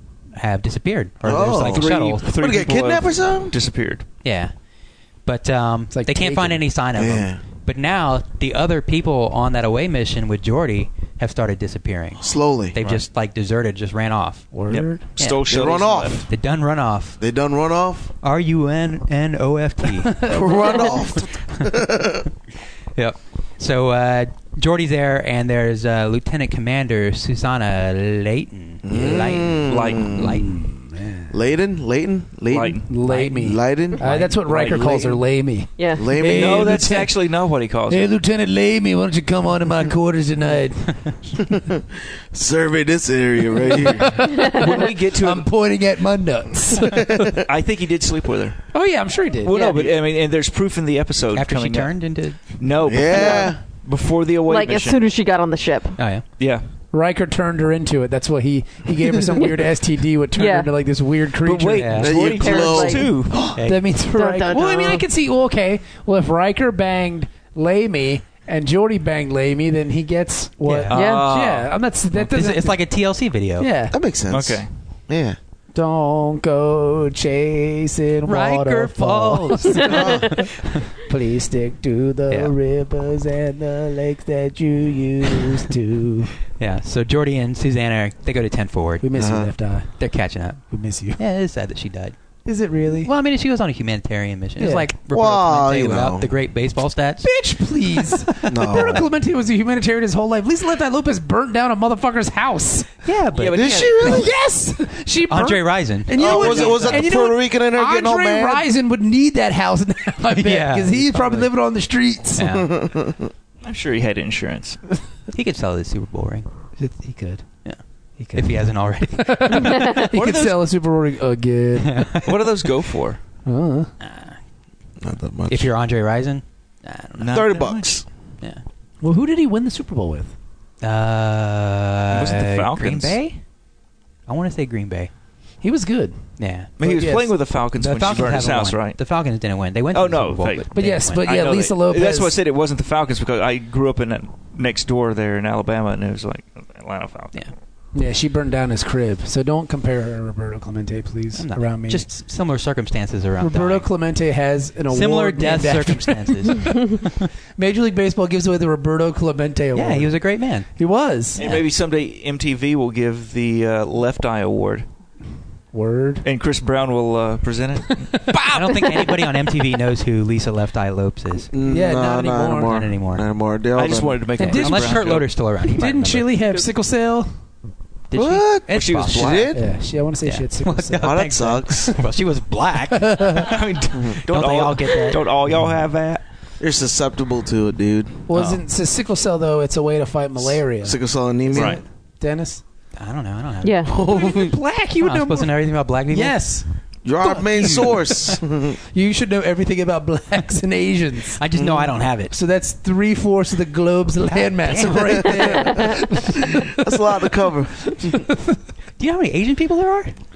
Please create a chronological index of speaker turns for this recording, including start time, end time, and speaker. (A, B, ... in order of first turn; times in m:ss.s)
0:00.3-0:02.3 A
0:01.2-0:03.5 B
0:01.6-0:04.0 C
0:04.2-0:04.5 A
0:05.2-0:14.5 A
0:05.9-0:06.6 D
0:06.9-0:07.4 B
0:12.2-0:12.8 B
0:14.5-0:15.0 D
0:14.7-0:16.2 C
0:15.2-0:15.4 A
0:15.5-0:16.3 B
0:16.3-0:17.2 A
0:17.2-0:18.1 B
0:18.2-0:20.4 A
0:20.1-0:20.8 D
0:20.3-0:22.3 B
0:23.0-0:30.6 A
0:28.8-0:30.4 B
0:29.7-0:30.2 C
0:30.3-0:31.3 D
0:31.3-0:32.8 B
0:32.5-0:32.9 C
0:32.9-0:37.2 D
0:33.0-0:34.4 A
0:33.4-0:35.2 B
0:34.4-0:34.9 C
0:35.8-0:36.2 E
0:35.9-0:36.8 B
0:36.2-0:38.0 C
0:37.9-0:41.5 D
0:41.4-0:44.2 B
0:43.6-0:47.3 D
0:44.2-0:45.5 C
0:44.3-0:44.7 E
0:46.8-0:47.4 B
0:47.4-0:48.6 C
0:48.7-0:49.7 D
0:49.4-0:55.0 C
0:49.5-0:49.9 E
0:51.3-0:52.6 A
0:52.8-0:53.6 B
0:53.2-0:53.5 E
0:54.5-0:56.0 E
0:56.0-0:56.2 A
0:56.4-0:56.6 C
0:56.9-1:02.1 D
1:00.3-1:00.7 E
1:01.4-1:03.4 C
1:01.8-1:02.1 A
1:02.0-1:03.6 B
1:02.2-1:03.2 E
1:03.5-1:03.8 A
1:03.6-1:12.8 D
1:04.1-1:05.0 E
1:10.6-1:11.0 A
1:10.9-1:11.7 C
1:10.9-1:11.3 E
1:12.1-1:13.7 A
1:13.6-1:14.0 D
1:13.9-1:15.4 B
1:14.3-1:14.7 C
1:15.7-1:20.4 D
1:18.2-1:20.1 A
1:19.9-1:20.3 E
1:19.9-1:20.4 B
1:21.0-1:26.3 D
1:26.6-1:29.1 A
1:29.0-1:29.9 D
1:29.1-1:29.5 B
1:30.0-1:30.6 A
1:30.7-1:31.2 D
1:31.2-1:32.2 A
1:32.4-1:33.1 D
1:33.0-1:37.3 A
1:34.6-1:34.9 D
1:35.1-1:36.3 B
1:37.2-1:42.9 D
1:38.4-1:39.1 B
1:43.0-1:43.8 A
1:43.3-1:44.3 C
1:43.5-1:44.3 B
1:44.0-1:52.5 D
1:45.3-1:47.1 A
1:46.1-1:48.6 B
1:46.2-1:46.9 C
1:50.4-1:51.5 A
1:52.4-1:52.7 A
1:52.4-1:53.3 B
1:53.6-1:54.8 C
1:55.3-1:56.5 A
1:56.8-1:57.4 D
1:58.2-2:02.2 D
1:58.3-1:59.8 A
1:59.6-2:00.1 E
1:59.9-2:00.6 C
2:01.8-2:02.3 A
2:02.2-2:03.2 C
2:03.4-2:03.9 D
2:04.0-2:04.4 A
2:05.0-2:05.7 B
2:05.5-2:07.5 A
2:07.2-2:07.9 C
2:07.3-2:08.0 B
2:09.0-2:10.3 D
2:10.8-2:13.4 A
2:12.1-2:13.2 C
2:14.3-2:15.1 A
2:15.6-2:16.2 D
2:16.4-2:16.7 A
2:16.8-2:19.0 C
2:16.8-2:17.3 D
2:17.8-2:21.2 A
2:19.9-2:27.4 C
2:20.7-2:22.3 D
2:27.9-2:32.1 D
2:31.3-2:33.9 A
2:33.4-2:36.9 D
2:34.9-2:37.1 A
2:37.6-2:41.4 D
2:39.7-2:40.7 A
2:41.4-2:44.8 C
2:41.4-2:41.6 A
2:45.7-2:46.2 D
2:46.2-2:48.1 C
2:48.0-2:49.4 D
2:48.4-2:51.5 A
2:51.5-2:54.2 B
2:51.6-2:52.8 D
2:52.6-2:53.2 A
2:53.8-2:55.3 C
2:54.4-2:55.1 D
2:54.4-2:56.4 A
2:55.6-2:57.3 D
2:58.1-2:59.6 A
2:58.1-2:59.6 B
2:58.7-2:59.5 C
2:59.5-3:01.2 D
3:00.2-3:03.6 A
3:01.0-3:02.0 B
3:02.9-3:03.6 D
3:03.3-3:06.2 C
3:04.3-3:05.8 A
3:06.6-3:08.2 B
3:08.3-3:12.6 D
3:08.3-3:08.6 A
3:10.8-3:11.8 B
3:11.5-3:11.8 C
3:13.0-3:13.8 A
3:13.6-3:14.0 E
3:13.8-3:14.6 B
3:14.0-3:15.5 D
3:15.0-3:16.4 A
3:16.1-3:16.7 D
3:17.0-3:18.8 B
3:17.2-3:21.4 D
3:21.4-3:22.3 A
3:21.5-3:21.9 B
3:22.3-3:27.0 D
3:24.2-3:25.4 A
3:25.4-3:25.9 E
3:25.5-3:25.8 B
3:26.4-3:28.2 B
3:27.9-3:28.4 D
3:29.0-3:30.1 A